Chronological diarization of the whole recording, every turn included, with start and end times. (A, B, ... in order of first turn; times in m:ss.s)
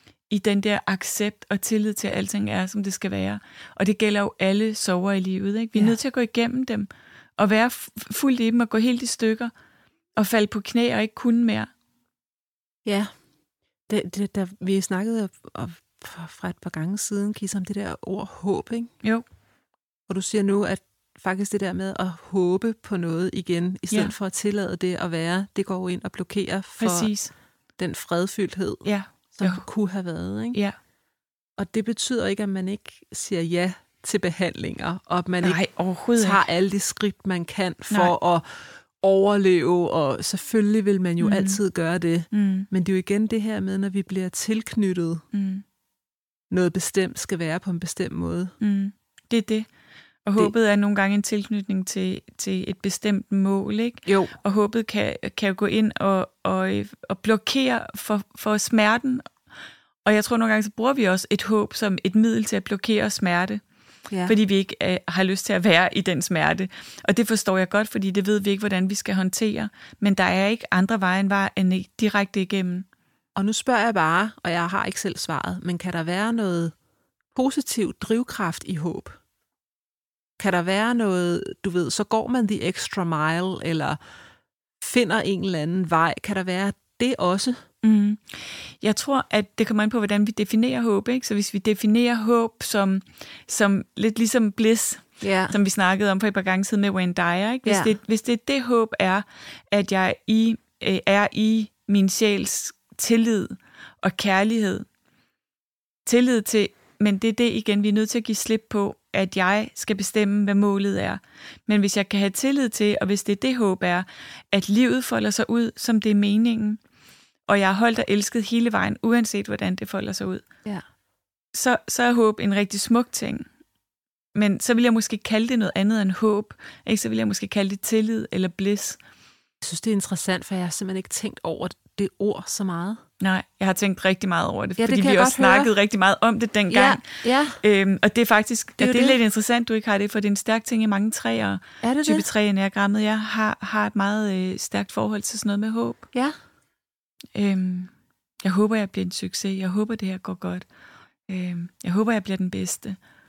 0:00.3-0:09.5 A
0:10.2-0:11.7 A
0:12.8-0:13.1 B
0:13.9-0:18.9 B
0:20.1-0:27.1 B
0:26.8-0:27.3 A
0:27.8-0:30.6 B
0:28.8-0:29.6 A
0:31.6-0:35.6 B
0:35.4-0:36.4 A
0:36.2-0:45.2 B
0:41.2-0:41.6 A
0:42.3-0:42.7 A
0:45.3-0:45.6 A
0:46.5-0:48.5 B
0:48.6-0:49.7 A
0:50.2-0:59.2 A
0:54.1-0:54.3 B
1:00.0-1:03.6 A
1:04.1-1:04.4 B
1:04.3-1:12.9 A
1:13.4-1:16.7 B
1:17.4-1:19.2 B
1:20.4-1:24.0 B
1:24.8-1:27.6 B
1:27.8-1:44.9 A
1:35.2-1:35.6 B
1:37.7-1:37.9 B
1:46.1-1:56.8 A
1:57.5-2:00.4 A
2:01.5-2:03.5 A
2:04.4-2:09.0 A
2:09.6-2:13.0 B
2:13.2-2:17.1 A
2:14.8-2:15.7 B
2:16.7-2:17.6 B
2:17.6-2:26.1 A
2:18.8-2:19.2 B
2:21.8-2:22.3 B
2:27.4-2:27.9 A
2:28.4-2:30.7 A
2:31.3-2:33.0 A